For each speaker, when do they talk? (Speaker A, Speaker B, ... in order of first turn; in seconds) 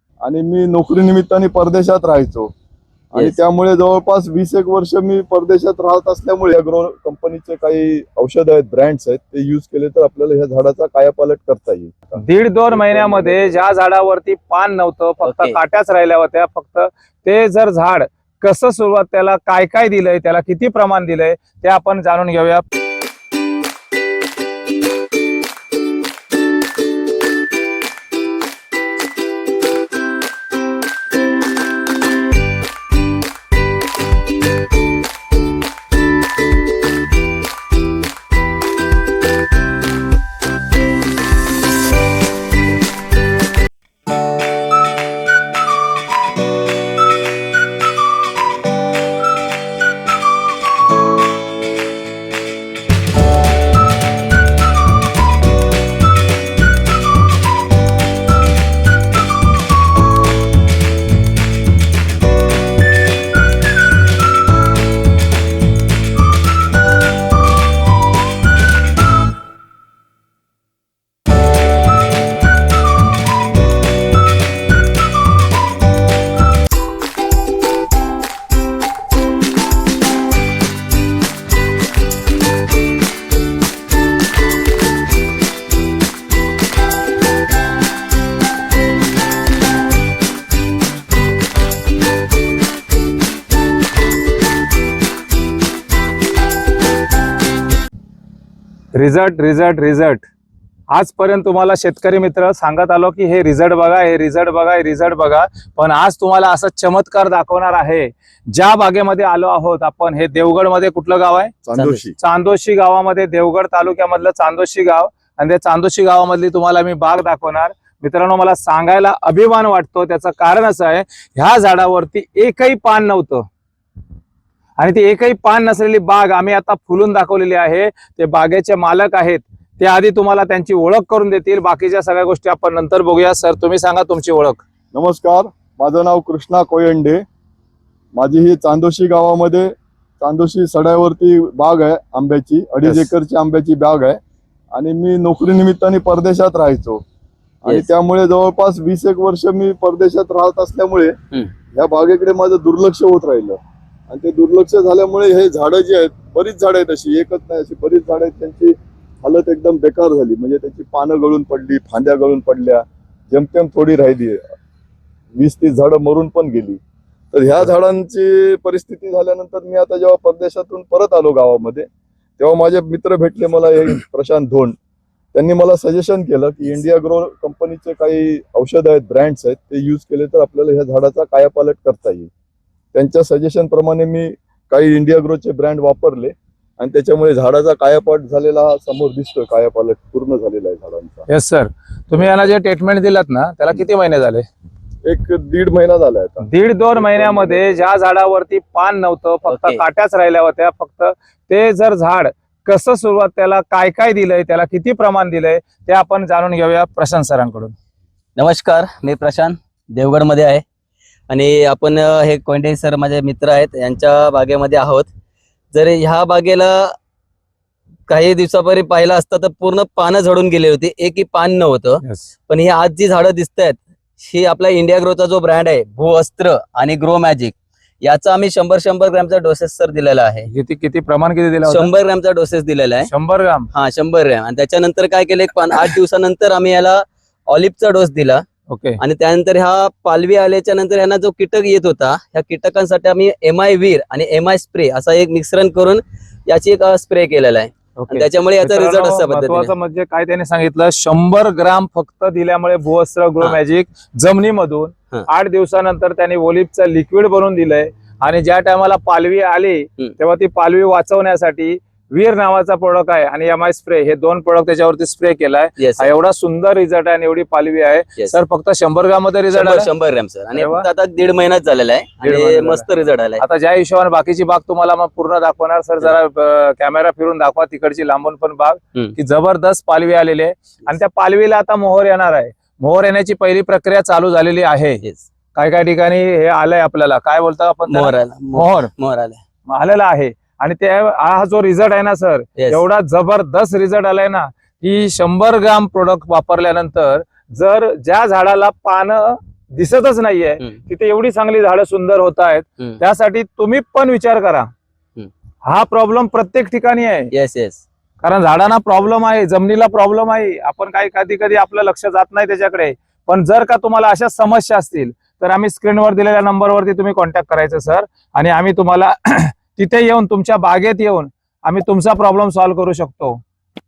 Speaker A: 0.2-2.5, 3.1-13.6, 111.6-112.2, 134.9-137.2, 138.1-144.2, 144.7-147.0, 147.6-151.2, 151.7-153.6, 154.1-164.5, 165.3-166.8, 167.3-171.9, 172.4-174.8, 175.3-182.3, 182.9-191.2, 195.0-197.8
Speaker B: 12.2-22.6, 98.9-100.2, 100.9-111.6, 112.2-123.5, 124.8-134.6, 191.3-194.4, 196.4-207.7, 222.0-222.3, 230.5-231.9, 233.1-233.7, 238.7-239.0, 248.0-269.9, 270.5-270.9, 272.2-272.9, 273.4-285.0, 285.5-288.9, 289.7-304.7, 305.6-307.3, 308.2-323.4
Speaker C: 15.2-15.6, 111.7-112.0, 199.4-199.8, 208.4-210.6, 211.3-215.1, 215.7-216.9, 218.1-230.5, 231.6-233.1, 233.7-238.4, 239.0-249.7, 265.8-266.1, 269.5-273.4, 287.9-289.4, 292.6-292.8, 307.3-307.8